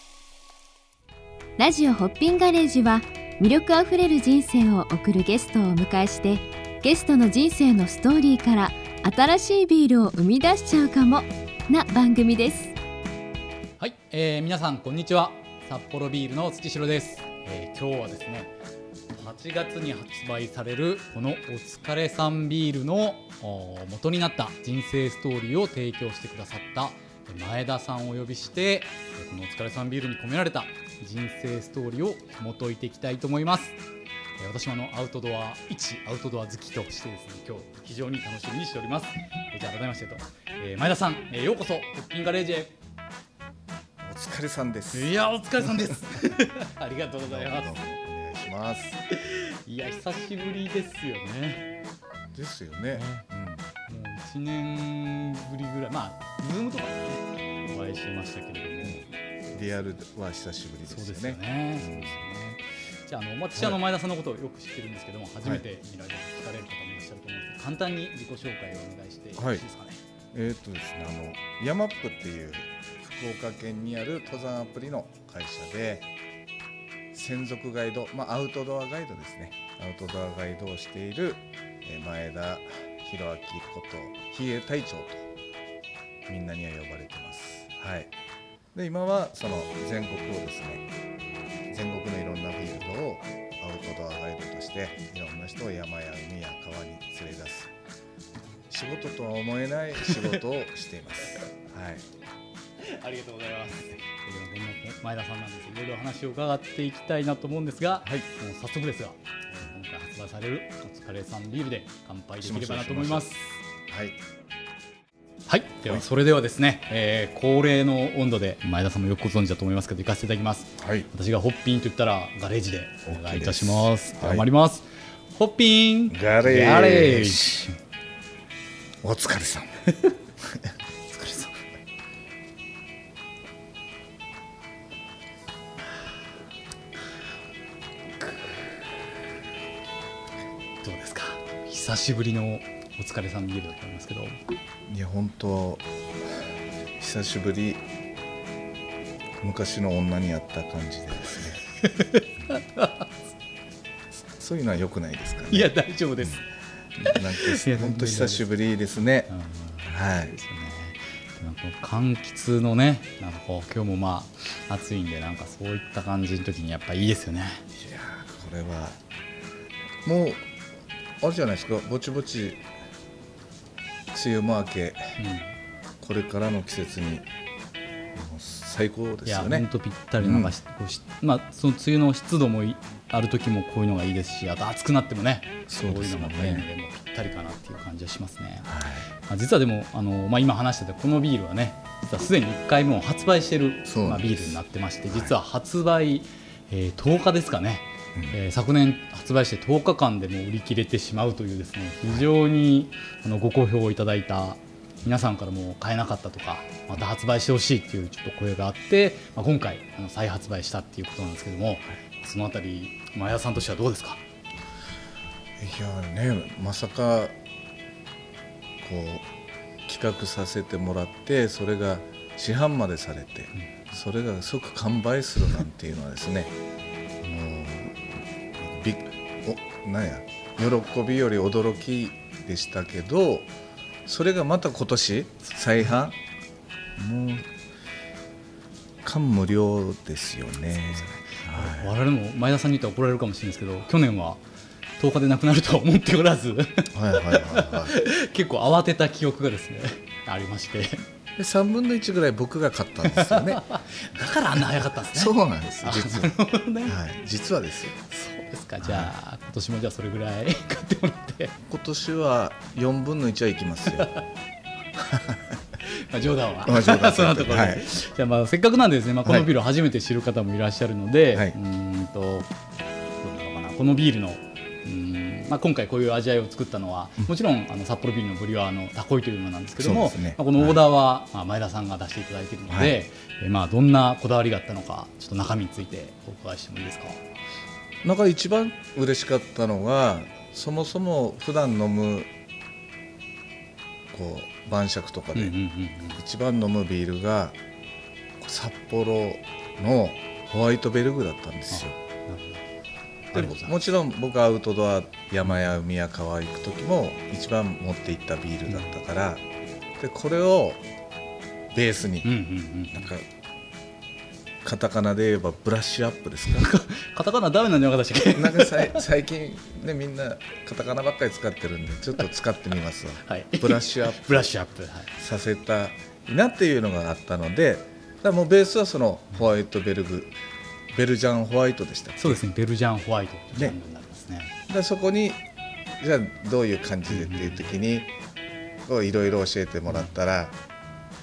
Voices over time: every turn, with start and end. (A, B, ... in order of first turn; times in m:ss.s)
0:01.6-0:12.7 A
0:13.8-0:18.5 B
0:19.1-0:33.8 B
0:34.4-0:42.7 B
0:44.0-0:46.0 C
0:44.9-0:47.8 B
0:47.2-0:49.0 C
0:49.1-0:51.6 B
0:52.3-0:53.7 C
0:52.9-0:53.2 B
0:53.9-0:59.1 B
0:58.8-1:02.2 C
1:00.9-1:10.0 B
1:09.4-1:09.6 C
1:10.3-1:16.1 C
1:17.1-1:25.3 C
1:26.2-1:28.1 C
1:28.7-1:30.9 C
1:31.7-1:37.7 C
1:38.7-1:42.1 C
1:42.8-1:53.6 B
1:52.4-1:53.3 C
1:53.9-1:54.2 C
1:55.5-2:07.8 B
2:00.8-2:01.1 C
2:03.1-2:04.4 C
2:06.1-2:07.7 C
2:09.0-2:09.8 C
2:10.4-2:10.7 C
2:11.1-2:11.6 B
2:18.2-2:18.5 B
2:20.8-2:24.4 B
2:24.9-2:27.8 C
2:29.4-2:31.6 C
2:31.8-2:33.2 B
2:34.3-2:35.7 C
2:35.5-2:36.4 B
2:37.0-2:39.3 C
2:37.0-2:38.4 B
2:39.3-2:47.6 B
2:39.8-2:40.3 C
2:47.7-2:49.0 C
2:50.0-2:50.5 C
2:51.2-2:52.6 C
2:54.1-2:55.2 C
2:55.2-2:55.5 B
2:56.0-2:57.3 C
2:58.1-2:59.7 C
2:59.2-3:34.2 B
3:00.2-3:00.5 C
3:05.7-3:06.6 C
3:08.7-3:09.1 C
3:13.8-3:15.3 C
3:35.6-3:37.3 C
3:38.8-3:39.3 C
3:39.9-3:46.5 C
3:47.2-3:53.5 C
3:54.0-3:56.2 C
3:57.0-3:57.5 C
3:59.0-4:01.9 C
4:01.3-4:04.4 B
4:05.0-4:11.0 B
4:06.9-4:07.9 C
4:11.4-4:13.6 C
4:13.1-4:17.0 B
4:15.0-4:16.3 C
4:16.8-4:17.9 C
4:18.0-4:21.6 B
4:18.8-4:19.1 C
4:21.6-4:24.1 C
4:23.9-4:24.2 B
4:25.0-4:25.5 C
4:25.8-4:32.5 B
4:26.6-4:27.9 C
4:33.2-4:47.2 B
4:39.8-4:40.8 C
4:42.7-4:43.0 C
4:48.0-4:52.3 C
4:54.1-4:55.5 C
4:55.3-4:56.2 B
4:56.2-4:57.6 C
4:58.4-5:02.0 C
5:01.7-5:02.6 B
5:03.3-5:03.7 B
5:03.3-5:09.4 C
5:08.7-5:08.9 B
5:10.0-5:10.8 C
5:11.7-5:12.3 C
5:12.2-5:13.1 B
5:12.9-5:13.3 C
5:14.6-5:16.7 C
5:16.5-5:19.0 B
5:18.3-5:24.5 C
5:23.2-5:25.1 B
5:25.1-5:30.3 C
5:30.9-5:32.4 C
5:32.2-5:34.5 B
5:34.7-5:35.4 C
5:36.0-5:38.1 C
5:37.1-5:37.6 B
5:38.8-5:40.6 C